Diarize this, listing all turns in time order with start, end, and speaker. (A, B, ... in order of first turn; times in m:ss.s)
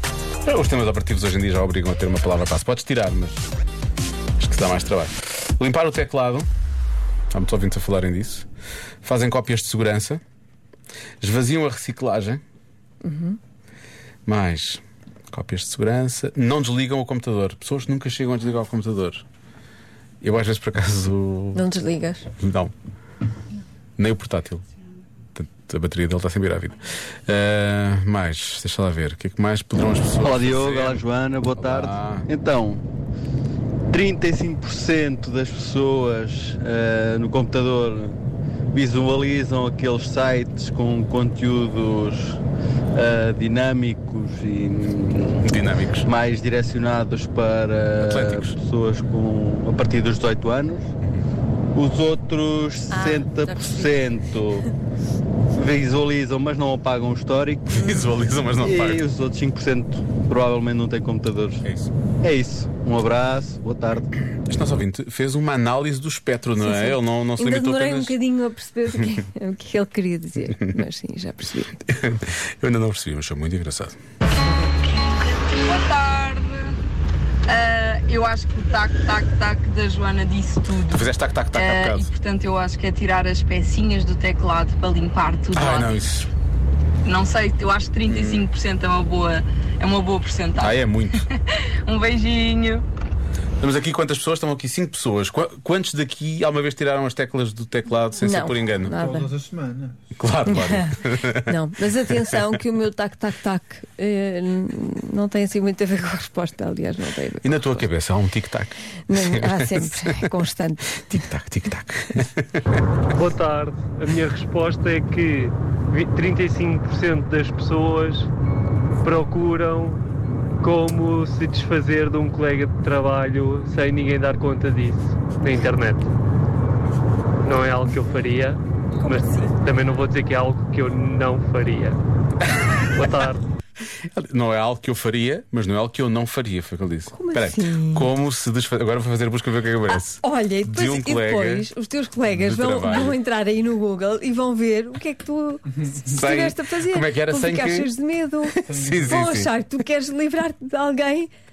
0:00.4-0:03.5 A
0:04.4-0:06.5 A
0:07.3-0:08.5 A
0:09.0-0:10.2 A
0:11.2-0:12.4 A
0:13.0-0:13.4 B
0:14.3-0:19.2 A
0:20.2-0:21.6 A
0:21.6-0:22.3 B
0:22.4-0:22.7 A
0:24.0-0:24.6 A
0:25.4-0:31.0 A
0:30.2-0:32.8 C
0:31.5-0:32.3 A
0:33.9-0:38.2 C
0:38.7-0:42.4 C
0:42.9-0:45.4 C
0:45.4-0:46.1 A
0:46.0-0:50.8 C
0:48.0-0:48.6 A
0:51.8-0:54.7 C
0:52.9-0:54.0 B
0:55.5-0:57.9 C
0:57.7-0:59.0 A
0:58.6-1:01.7 C
1:01.6-1:01.9 A
1:02.2-1:04.1 C
1:04.5-1:08.2 A
1:06.6-1:11.8 B
1:11.9-1:14.0 A
1:15.6-1:16.8 D
1:17.5-1:25.9 D
1:20.9-1:22.1 A
1:25.5-1:26.3 A
1:27.0-1:32.8 D
1:28.1-1:28.5 A
1:30.6-1:31.3 A
1:33.6-1:39.0 A
1:38.2-1:39.4 B
1:40.2-1:41.5 A
1:40.5-1:47.8 B
1:42.1-1:42.4 A
1:47.4-1:50.3 A
1:49.1-1:51.3 B
1:51.1-1:52.6 A
1:53.1-1:58.3 E
1:59.0-2:00.0 E
2:00.6-2:06.1 E
2:07.4-2:12.0 E
2:12.9-2:13.4 E
2:14.1-2:21.7 A
2:17.1-2:18.1 B
2:20.1-2:31.3 B
2:22.3-2:23.2 A
2:26.1-2:27.9 A
2:28.6-2:29.5 A